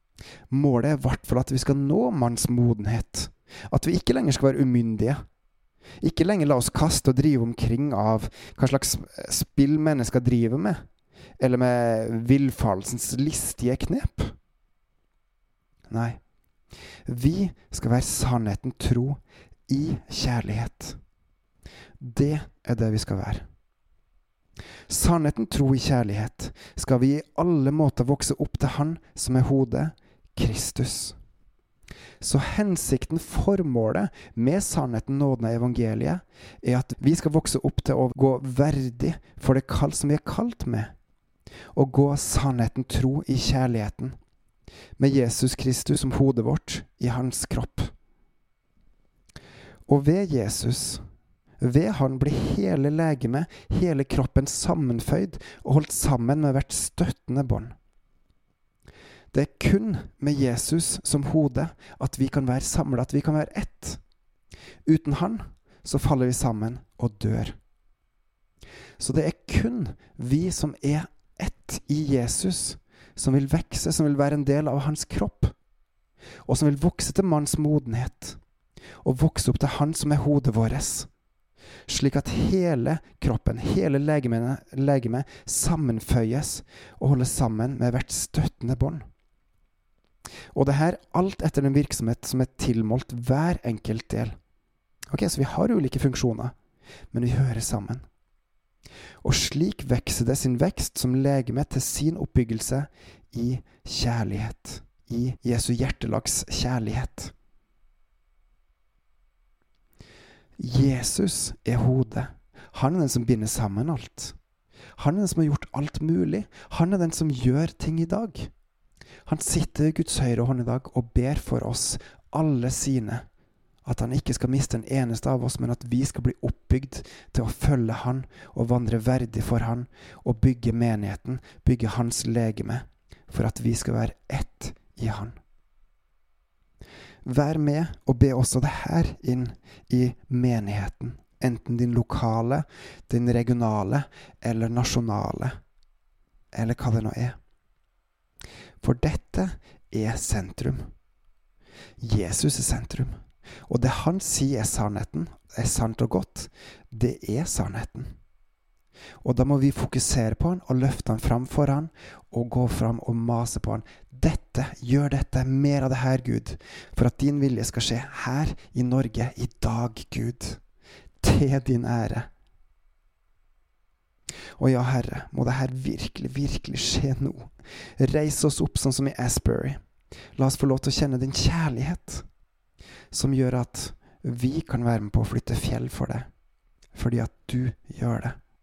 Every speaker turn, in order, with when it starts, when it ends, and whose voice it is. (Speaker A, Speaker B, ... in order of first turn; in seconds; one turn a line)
Speaker A: 0.5-5.2
Speaker A: 6.0-10.8
Speaker A: 11.4-14.3
Speaker A: 15.9-16.2
Speaker A: 17.1-21.0
Speaker A: 22.0-23.5
Speaker A: 24.9-31.2
Speaker A: 32.2-40.9
Speaker A: 41.7-44.1
Speaker A: 45.0-47.9
Speaker A: 49.9-51.0
Speaker A: 51.6-57.8
Speaker A: 59.3-64.0
Speaker A: 64.9-67.6
Speaker A: 69.0-75.5
Speaker A: 76.5-78.4
Speaker A: 79.0-81.1
Speaker A: 81.9-89.0
Speaker A: 90.5-94.4
Speaker A: 95.1-96.5
Speaker A: 97.1-98.0
Speaker A: 99.2-107.3
Speaker A: 110.6-114.4
Speaker A: 115.0-118.5
Speaker A: 119.3-123.2
Speaker A: 123.8-135.4
Speaker A: 137.2-145.6
Speaker A: 146.5-147.4
Speaker A: 148.8-150.9
Speaker A: 152.0-153.2
Speaker A: 153.7-158.1
Speaker A: 159.2-170.6
Speaker A: 171.2-172.3
Speaker A: 174.6-179.8
Speaker A: 180.4-182.3
Speaker A: 183.1-186.3
Speaker A: 186.9-188.4